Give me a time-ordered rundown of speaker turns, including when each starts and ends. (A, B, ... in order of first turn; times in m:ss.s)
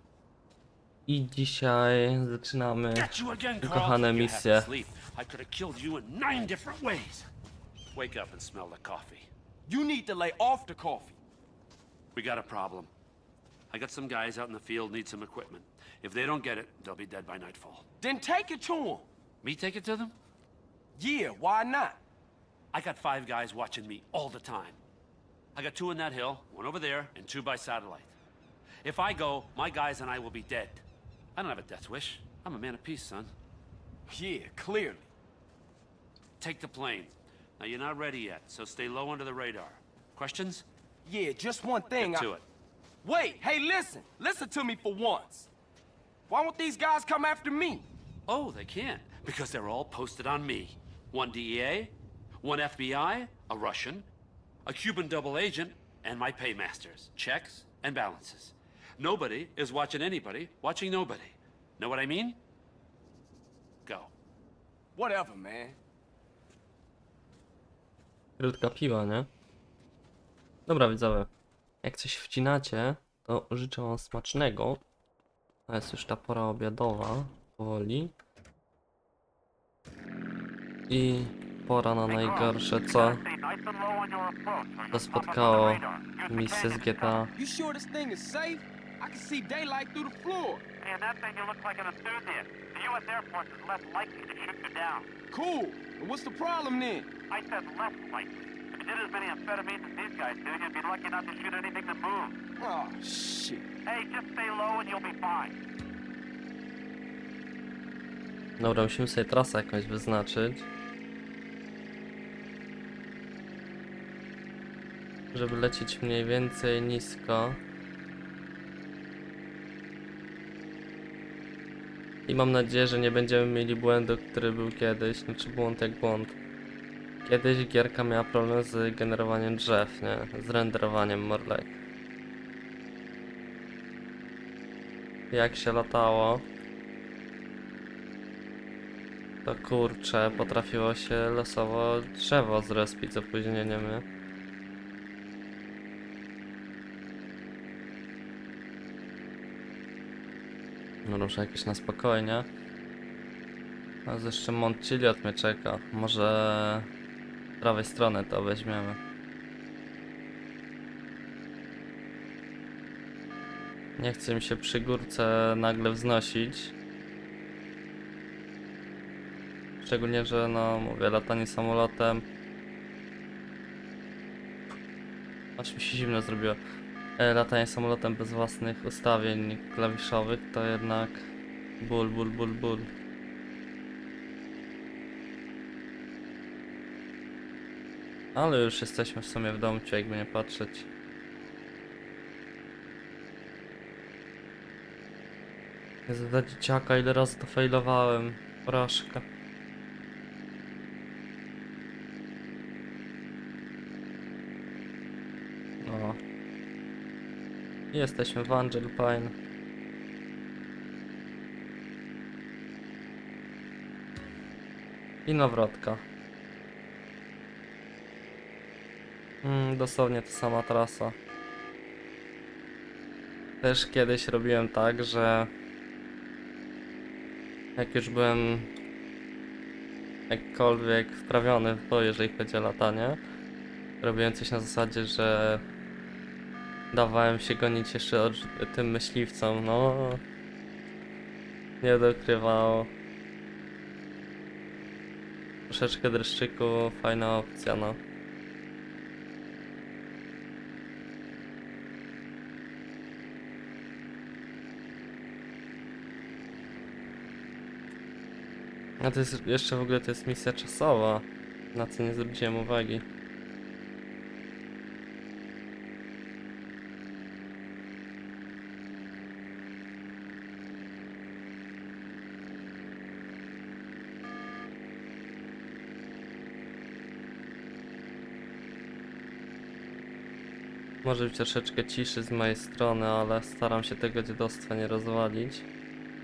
0:01.1-0:04.7 A
0:02.9-0:07.3 B
0:07.9-0:09.3 B
0:09.7-0:11.2 C
0:12.2-0:12.9 B
0:13.7-0:17.9 B
0:18.0-0:19.1 C
0:19.4-0:20.2 B
0:21.0-0:22.0 C
0:22.7-0:24.8 B
0:25.6-0:28.1 B
0:28.8-0:30.8 B
0:31.4-0:33.3 B
0:34.1-0:35.1 C
0:36.4-0:40.7 B
0:41.0-0:42.3 C
0:42.0-0:42.4 B
0:43.0-0:45.5 C
0:46.3-0:47.9 C
0:48.3-0:54.1 B
0:54.7-1:02.4 B
1:03.9-1:04.1 B
1:05.0-1:05.8 C
1:08.4-1:09.3 A
1:10.7-1:11.3 A
1:11.8-1:14.8 A
1:15.7-1:18.1 A
1:20.9-1:23.2 A
1:22.1-1:27.2 D
1:24.9-1:27.3 A
1:27.4-1:30.6 C
1:30.8-1:35.1 D
1:35.3-1:37.1 C
1:37.3-1:42.4 D
1:42.6-1:43.7 C
1:43.9-1:45.5 D
1:48.6-1:50.7 A
1:55.3-1:57.6 A
2:02.3-2:06.4 A
2:07.2-2:11.8 A
2:15.3-2:16.5 A
2:19.4-2:24.0 A
2:31.1-2:32.5 A
2:34.1-2:36.9 A
2:37.6-2:39.0 A
2:44.0-2:46.7 A
2:49.8-2:52.2 A
2:55.6-2:56.6 A
2:57.2-3:01.3 A
3:01.8-3:02.9 A
3:08.4-3:10.9 A
3:16.1-3:19.2 A
3:25.8-3:26.2 A
3:27.9-3:29.3 A
3:35.3-3:36.0 A
3:39.4-3:41.2 A
3:43.6-3:45.5 A
3:47.8-3:48.7 A
3:50.3-3:53.2 A
3:54.0-3:55.6 A
3:56.9-4:00.2 A
4:01.8-4:02.9 A
4:05.7-4:08.0 A
4:19.0-4:23.0 A
4:41.0-4:45.7 A